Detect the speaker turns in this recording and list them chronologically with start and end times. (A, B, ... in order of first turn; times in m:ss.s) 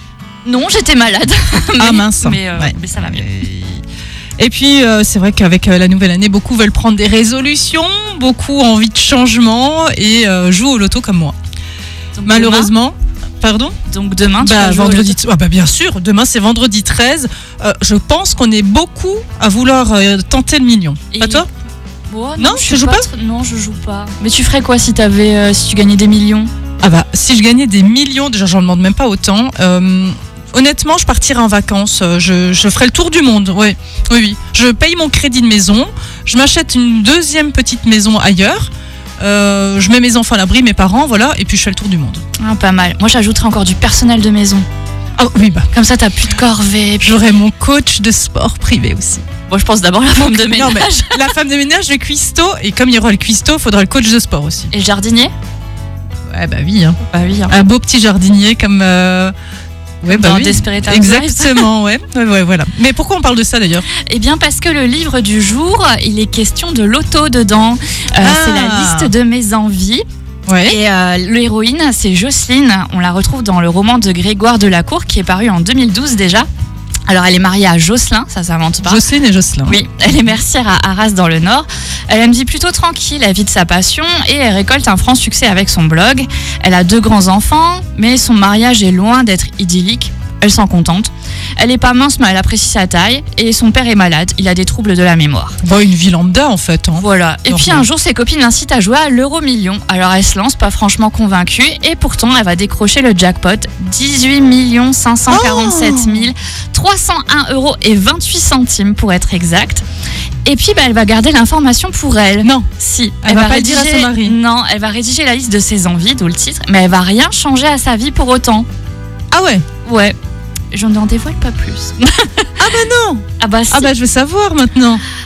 0:00.4-0:03.3 A
0:01.8-0:03.8 B
0:04.4-0:11.4 B
0:12.2-0:12.7 A
0:12.3-0:13.8 B
0:13.9-0:15.2 A
0:14.4-0:21.5 B
0:21.1-0:21.5 A
0:22.1-0:26.5 A
0:22.4-0:23.1 B
0:26.8-0:42.2 B
0:42.4-0:44.6 A
0:45.2-0:45.7 B
0:45.7-0:47.2 A
0:47.0-0:49.2 B
0:49.5-0:51.3 A
0:50.2-0:54.7 B
0:54.7-0:55.3 A
0:56.3-0:59.3 B
0:57.1-0:57.5 A
1:00.0-1:03.9 B
1:00.1-1:01.7 A
1:04.1-1:10.0 A
1:08.2-1:09.1 B
1:10.5-1:10.8 B
1:10.6-1:16.5 A
1:17.1-1:19.0 A
1:18.8-1:19.8 B
1:19.7-1:35.6 A
1:35.6-1:37.9 B
1:37.0-1:49.8 A
1:45.3-1:46.3 B
1:50.4-1:58.7 A
1:52.4-1:52.7 B
1:53.2-1:54.4 B
1:59.3-1:59.6 B
1:59.8-2:00.2 A
2:00.7-2:02.5 A
2:02.6-2:05.0 B
2:03.4-2:03.9 A